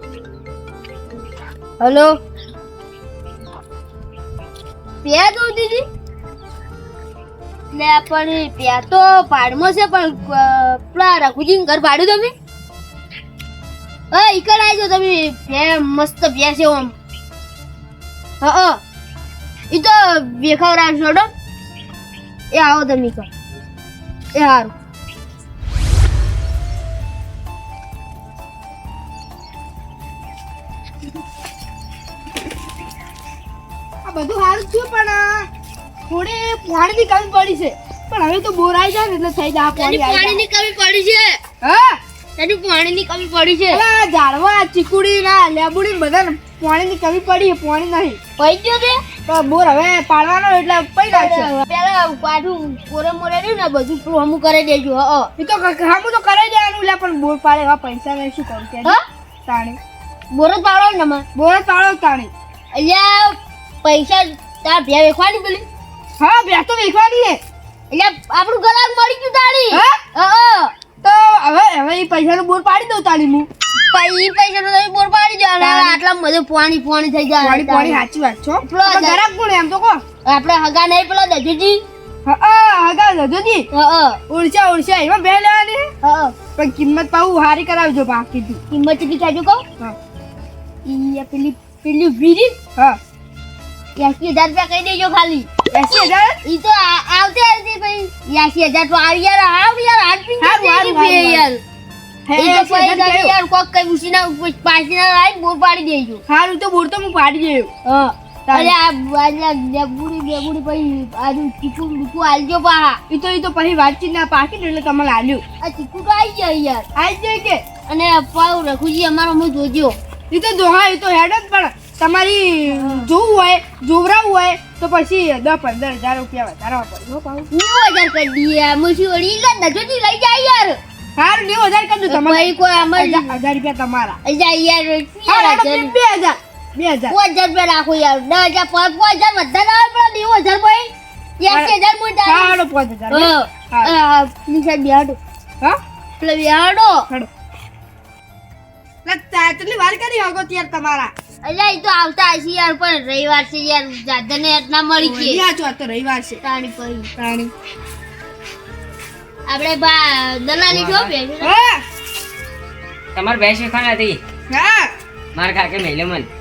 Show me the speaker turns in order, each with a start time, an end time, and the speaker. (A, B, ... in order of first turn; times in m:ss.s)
0:01.8-0:02.2 A
0:05.0-0:05.8 A
0:07.7-0:12.3 A
0:14.1-0:17.0 A
0:18.4-0:18.8 A
0:19.7-0:21.3 A
0:22.5-0:23.3 A
0:24.3-0:24.7 A
0:34.0-0:35.5 B
0:36.1-0:40.4 B
0:39.8-0:41.4 A
0:41.6-0:42.0 B
0:42.4-0:43.8 A
0:43.7-0:48.2 B
0:48.4-0:49.0 A
0:49.3-0:51.5 B
0:51.1-0:55.3 A
0:55.4-0:59.8 B
1:00.3-1:01.2 A
1:01.4-1:02.3 B
1:02.7-1:05.7 A
1:06.2-1:07.4 B
1:07.9-1:10.7 A
1:09.7-1:10.0 B
1:11.0-1:13.5 B
1:13.8-1:18.0 A
1:15.6-1:16.0 B
1:17.4-1:20.0 B
1:18.7-1:19.2 A
1:20.2-1:21.8 A
1:22.2-1:23.7 B
1:23.7-1:24.2 A
1:24.3-1:25.9 B
1:26.0-1:26.4 A
1:26.6-1:28.6 B
1:28.7-1:29.6 A
1:30.8-1:32.6 A
1:34.0-1:41.6 A
1:35.7-1:36.4 B
1:40.4-1:41.5 B
1:42.3-1:43.3 B
1:42.4-1:46.2 A
1:46.3-1:47.7 B
1:47.8-1:53.0 A
1:48.5-1:48.8 B
1:53.1-1:55.4 B
1:55.6-1:56.9 A
1:57.0-1:57.6 B
1:57.9-2:00.0 A
2:00.3-2:07.5 B
2:07.5-2:10.8 A
2:11.2-2:14.2 B
2:12.1-2:13.3 A
2:14.2-2:16.0 A
2:15.3-2:17.2 B
2:17.1-2:22.6 A
2:21.5-2:24.0 B
2:23.1-2:25.2 A
2:26.2-2:27.1 A
2:29.0-2:31.1 B
2:31.4-2:35.4 A
2:35.0-2:36.4 B
2:36.4-2:37.1 A
2:37.2-2:37.5 B
2:39.5-2:41.6 A
2:40.7-2:41.1 C
2:41.4-2:41.8 B
2:43.2-2:44.2 C
2:44.5-2:44.9 B
2:45.4-2:46.3 C